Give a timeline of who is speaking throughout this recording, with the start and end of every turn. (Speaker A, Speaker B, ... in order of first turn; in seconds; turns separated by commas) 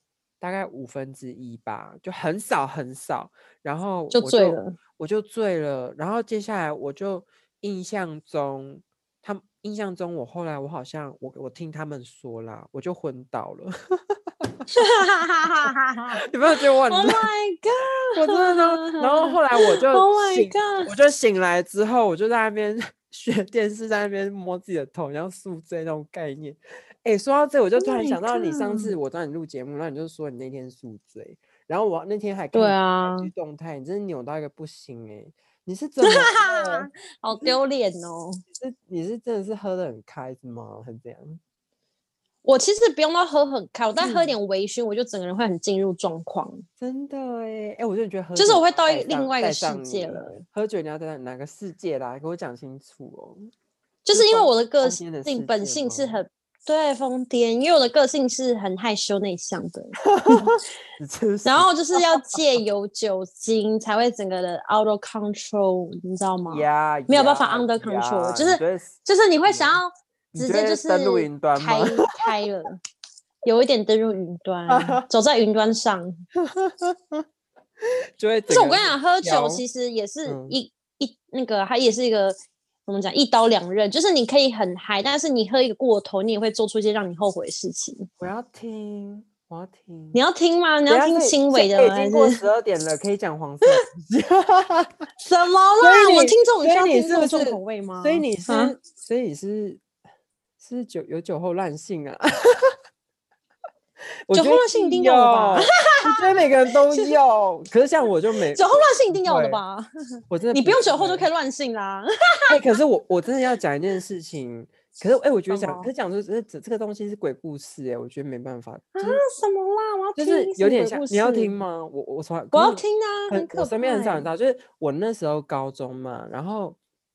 Speaker A: 0.4-14.6, Speaker B: 4.1-4.8, Speaker B: 14.7-20.9, Speaker A: 16.2-17.3, Speaker A: 18.1-37.6, Speaker B: 27.8-28.9, Speaker B: 32.5-33.3, Speaker B: 36.0-38.4, Speaker A: 38.5-41.4, Speaker B: 42.4-46.6, Speaker A: 44.0-44.4, Speaker A: 46.8-53.5, Speaker B: 48.4-50.4, Speaker B: 54.0-60.5, Speaker A: 54.1-56.2, Speaker A: 60.0-62.6, Speaker B: 61.4-72.8, Speaker A: 66.5-69.8, Speaker A: 70.3-72.3, Speaker B: 73.4-76.2, Speaker A: 74.7-75.0, Speaker A: 76.3-77.2, Speaker A: 78.2-79.6, Speaker B: 78.5-88.1, Speaker A: 80.2-80.6, Speaker A: 88.2-90.2, Speaker B: 90.1-92.4, Speaker A: 90.9-95.0, Speaker B: 95.2-98.8, Speaker A: 95.8-99.8, Speaker A: 100.6-102.8, Speaker A: 104.3-109.6, Speaker B: 104.3-107.1, Speaker B: 108.5-109.9, Speaker A: 110.3-111.3, Speaker B: 110.5-112.8, Speaker A: 112.5-119.2, Speaker B: 115.5-115.9, Speaker B: 119.0-121.5, Speaker A: 120.2-126.8, Speaker B: 122.5-124.3